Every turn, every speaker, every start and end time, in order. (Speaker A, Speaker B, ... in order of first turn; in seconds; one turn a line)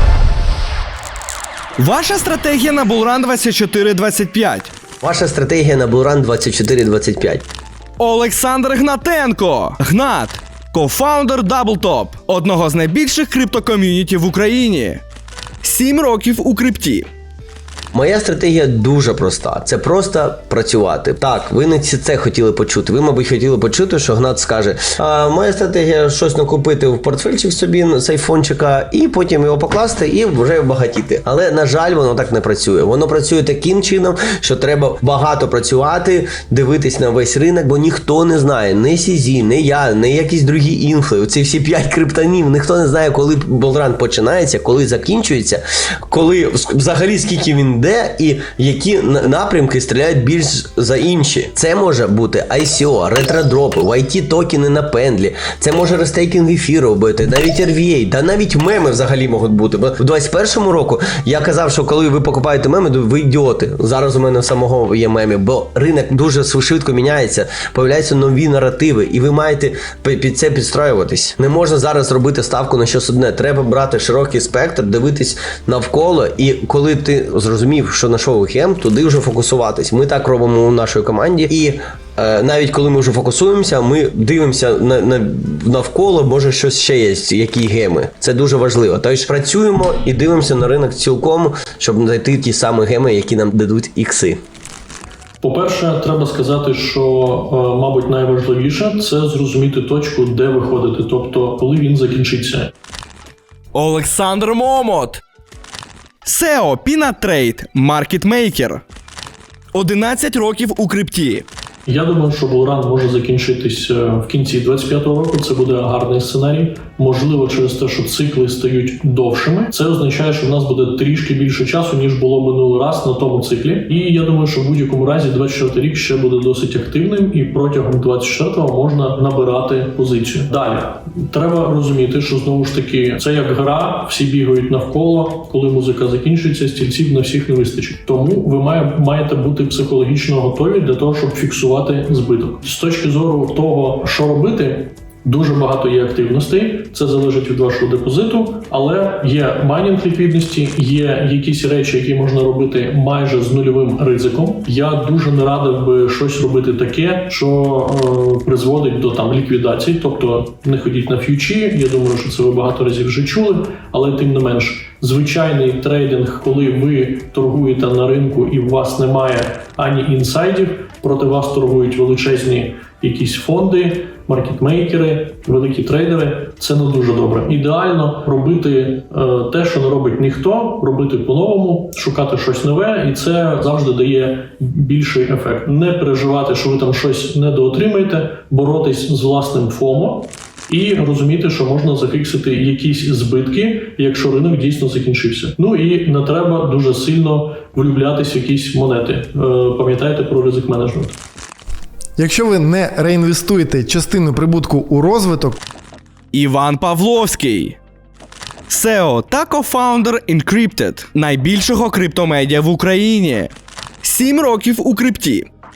Speaker A: 1.8-4.7
Speaker B: 5.0-7.4
Speaker A: 8.0-15.0
Speaker A: 15.6-17.1
Speaker B: 17.9-94.4
Speaker C: 95.4-102.7
Speaker A: 103.7-105.2
Speaker A: 106.2-108.8
Speaker A: 109.7-111.5
Speaker C: 111.8-201.2
Speaker D: 202.2-205.6
Speaker A: 206.3-207.8
Speaker A: 208.7-213.5
Speaker A: 214.0-215.5